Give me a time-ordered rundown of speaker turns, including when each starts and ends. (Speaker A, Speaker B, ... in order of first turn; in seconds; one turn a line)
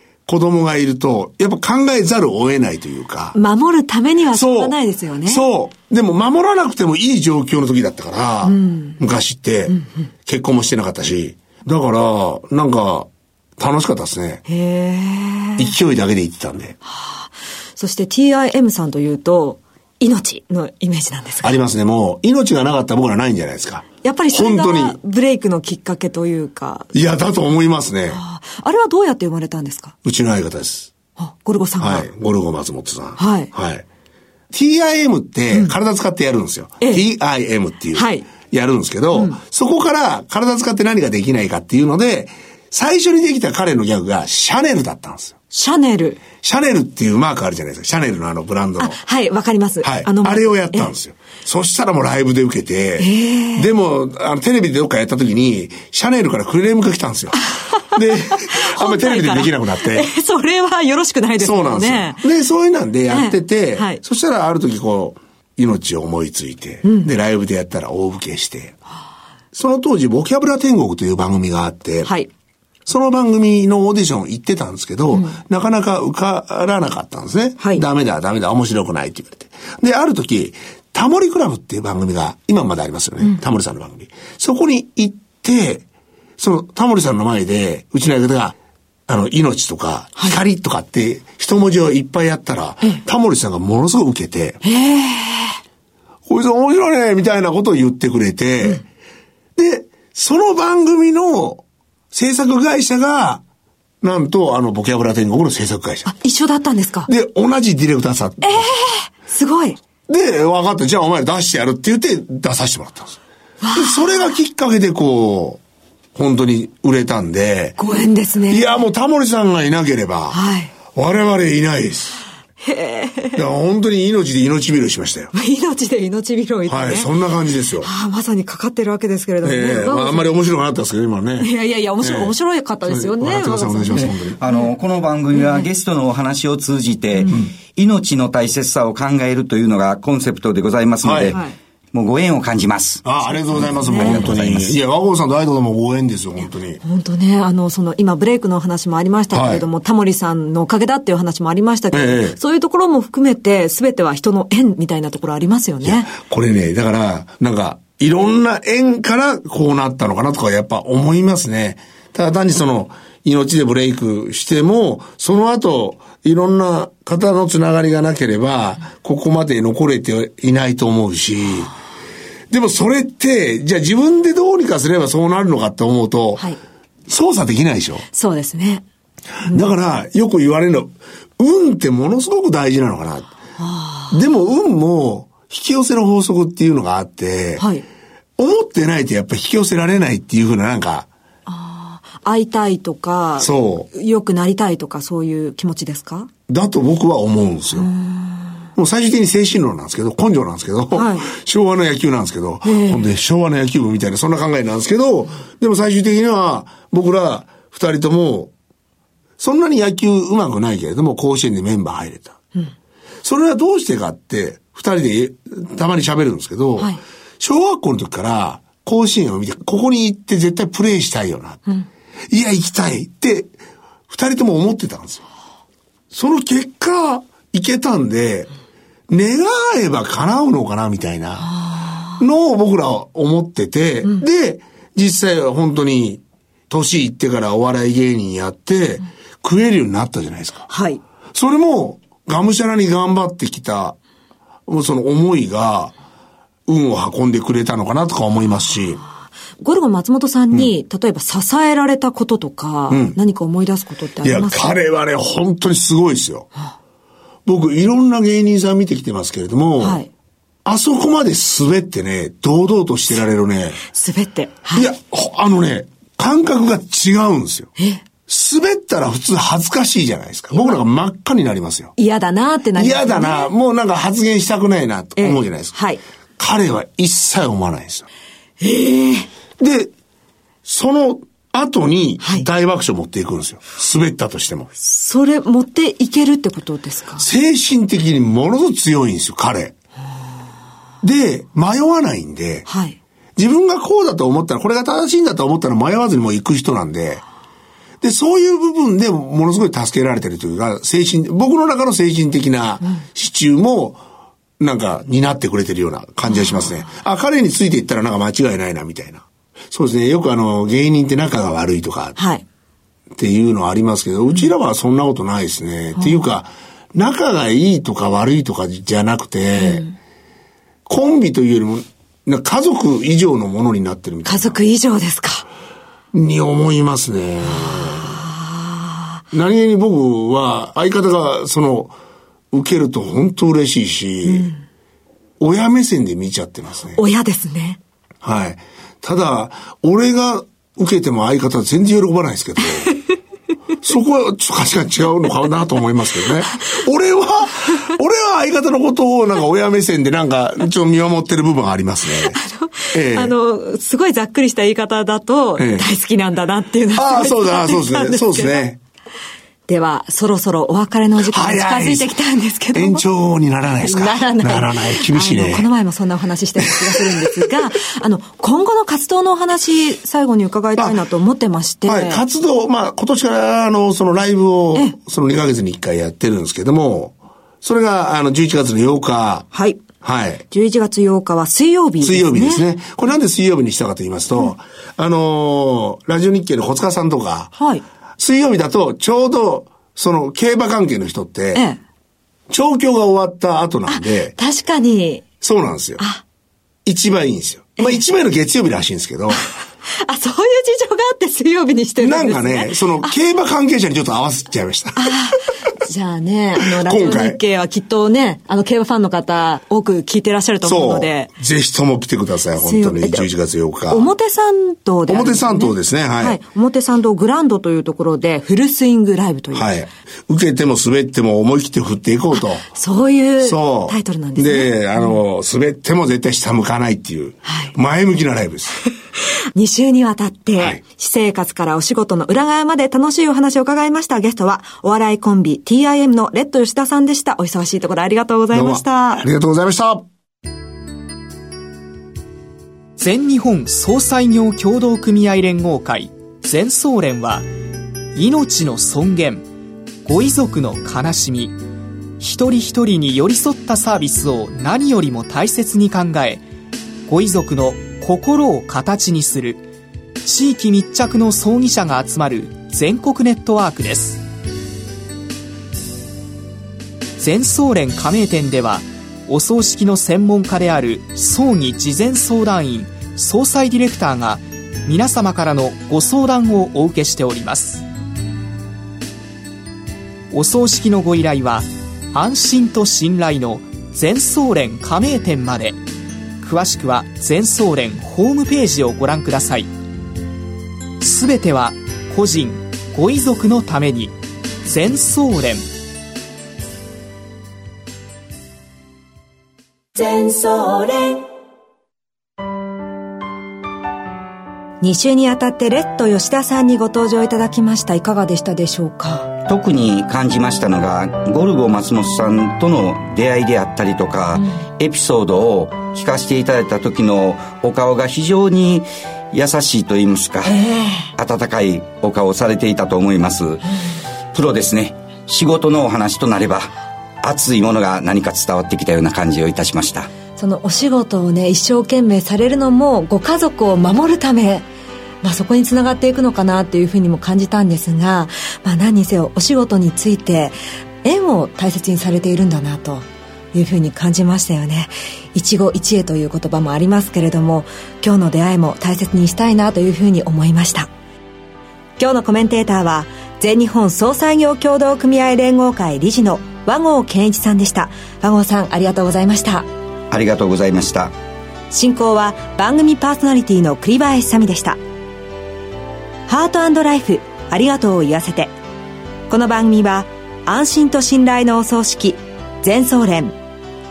Speaker A: 0.3-3.4
Speaker B: 3.3-5.4
Speaker A: 4.3-14.4
Speaker B: 8.4-9.0
Speaker B: 14.5-15.7
Speaker A: 15.6-16.8
Speaker B: 16.8-21.6
Speaker A: 21.4-25.0
Speaker B: 24.0-26.9
Speaker A: 26.9-28.2
Speaker B: 28.1-29.9
Speaker A: 30.0-30.9
Speaker B: 31.2-32.1
Speaker A: 31.8-33.8
Speaker B: 33.2-33.5
Speaker A: 34.5-45.3
Speaker B: 37.9-38.3
Speaker B: 39.1-39.4
Speaker B: 45.5-46.2
Speaker A: 46.4-49.0
Speaker B: 48.8-50.9
Speaker A: 49.8-60.1
Speaker B: 53.0-53.7
Speaker B: 57.5-62.2
Speaker A: 61.4-68.8
Speaker B: 63.1-64.0
Speaker B: 66.8-67.1
Speaker A: 69.5-72.1
Speaker A: 72.8-85.8
Speaker B: 75.1-75.4
Speaker A: 86.4-88.5
Speaker A: 89.1-94.6
Speaker B: 94.6-95.6
Speaker A: 96.3-98.8
Speaker A: 99.5-103.4
Speaker A: 104.0-106.1
Speaker B: 106.0-107.1
Speaker A: 107.1-108.7
Speaker B: 108.4-109.8
Speaker A: 110.1-113.2
Speaker B: 113.6-114.4
Speaker A: 113.7-115.6
Speaker A: 116.1-117.8
Speaker B: 117.8-118.8
Speaker A: 118.5-120.4
Speaker B: 120.3-120.7
Speaker A: 120.9-122.2
Speaker B: 122.6-123.4
Speaker A: 123.3-125.3
Speaker B: 125.3-127.1
Speaker A: 126.7-127.9
Speaker B: 127.8-130.3
Speaker A: 129.4-131.5
Speaker B: 131.4-134.7
Speaker A: 132.0-134.4
Speaker C: 133.9-141.4
Speaker B: 135.3-135.7
Speaker A: 141.0-141.4
Speaker C: 141.9-143.0
Speaker A: 143.0-146.8
Speaker C: 143.6-144.8
Speaker B: 143.9-144.3
Speaker B: 146.8-156.1
Speaker A: 149.3-149.7
Speaker A: 151.9-152.4
Speaker A: 155.8-171.7
Speaker A: 172.5-176.4
Speaker A: 177.1-178.0
Speaker B: 178.1-178.8
Speaker A: 179.4-183.3
Speaker B: 183.6-184.2
Speaker A: 184.1-187.6
Speaker B: 187.6-187.8
Speaker A: 188.4-191.1
Speaker B: 191.4-196.3
Speaker A: 193.4-193.9
Speaker A: 196.5-197.9
Speaker B: 197.8-198.4
Speaker A: 198.8-208.5
Speaker B: 200.9-201.3
Speaker B: 202.6-203.1
Speaker A: 209.4-212.4
Speaker A: 213.2-221.6
Speaker A: 222.3-223.5
Speaker A: 224.1-225.2
Speaker A: 226.1-228.5
Speaker A: 229.1-231.5
Speaker A: 232.2-240.7
Speaker B: 240.7-241.0
Speaker A: 241.3-244.0
Speaker A: 244.7-245.9
Speaker A: 246.7-249.0
Speaker B: 249.5-254.7
Speaker A: 252.9-253.2
Speaker A: 254.2-256.5
Speaker A: 257.4-260.0
Speaker B: 259.8-260.1
Speaker A: 260.6-263.8
Speaker B: 263.9-264.9
Speaker A: 264.7-267.7
Speaker B: 267.8-268.0
Speaker A: 268.3-271.9
Speaker B: 270.5-270.8
Speaker B: 271.9-273.5
Speaker A: 272.7-275.7
Speaker B: 275.1-276.0
Speaker A: 276.4-278.1
Speaker B: 278.6-279.3
Speaker A: 279.6-279.9
Speaker A: 280.6-284.7
Speaker B: 282.2-282.5
Speaker B: 284.8-287.2
Speaker A: 287.1-289.7
Speaker A: 291.0-292.7
Speaker B: 292.7-293.0
Speaker A: 293.4-297.2
Speaker A: 298.0-304.0
Speaker A: 304.6-312.2
Speaker B: 306.3-306.7
Speaker B: 312.1-312.4
Speaker A: 313.2-319.9
Speaker B: 315.9-316.3
Speaker B: 319.6-319.9
Speaker A: 320.9-324.6
Speaker B: 324.2-325.5
Speaker A: 326.1-328.2
Speaker B: 327.6-329.0
Speaker A: 329.3-331.9
Speaker A: 332.5-334.5
Speaker B: 334.2-334.6
Speaker A: 335.4-337.0
Speaker B: 336.9-337.8
Speaker A: 338.2-342.9
Speaker A: 343.8-352.4
Speaker B: 352.1-358.6
Speaker A: 352.9-353.3
Speaker A: 355.6-355.9
Speaker A: 356.9-358.8
Speaker B: 359.7-363.0
Speaker A: 361.2-362.1
Speaker A: 362.7-365.7
Speaker B: 363.8-372.2
Speaker A: 366.6-367.3
Speaker A: 371.9-379.5
Speaker B: 379.5-379.8
Speaker A: 380.0-380.4
Speaker B: 380.5-382.6
Speaker A: 382.0-387.5
Speaker B: 387.6-387.8
Speaker A: 388.2-391.6
Speaker A: 392.5-394.3
Speaker B: 393.9-395.2
Speaker A: 395.4-396.0
Speaker B: 396.0-396.2
Speaker A: 396.9-399.4
Speaker B: 399.5-403.1
Speaker A: 402.0-405.1
Speaker B: 404.9-411.3
Speaker A: 406.6-407.4
Speaker A: 410.6-414.1
Speaker B: 412.6-413.3
Speaker B: 413.9-419.7
Speaker A: 415.1-416.4
Speaker A: 419.5-422.7
Speaker B: 422.7-425.1
Speaker A: 423.4-428.8
Speaker B: 427.4-427.7
Speaker B: 429.5-439.3
Speaker A: 438.5-440.0
Speaker D: 443.0-447.4
Speaker D: 448.1-449.4
Speaker D: 450.0-451.6
Speaker D: 452.2-456.4
Speaker D: 457.1-459.6
Speaker D: 460.2-464.2
Speaker D: 467.2-477.8
Speaker D: 480.3-485.8
Speaker D: 486.4-489.7
Speaker D: 491.0-495.6
Speaker B: 499.9-501.2
Speaker B: 504.8-509.3
Speaker C: 509.5-520.6
Speaker B: 520.5-521.1
Speaker C: 521.1-523.6
Speaker C: 524.3-530.1
Speaker B: 530.3-534.6
Speaker B: 535.2-550.9
Speaker B: 552.0-559.7
Speaker C: 560.1-561.1
Speaker B: 561.7-564.8
Speaker B: 566.3-568.5
Speaker B: 569.3-573.4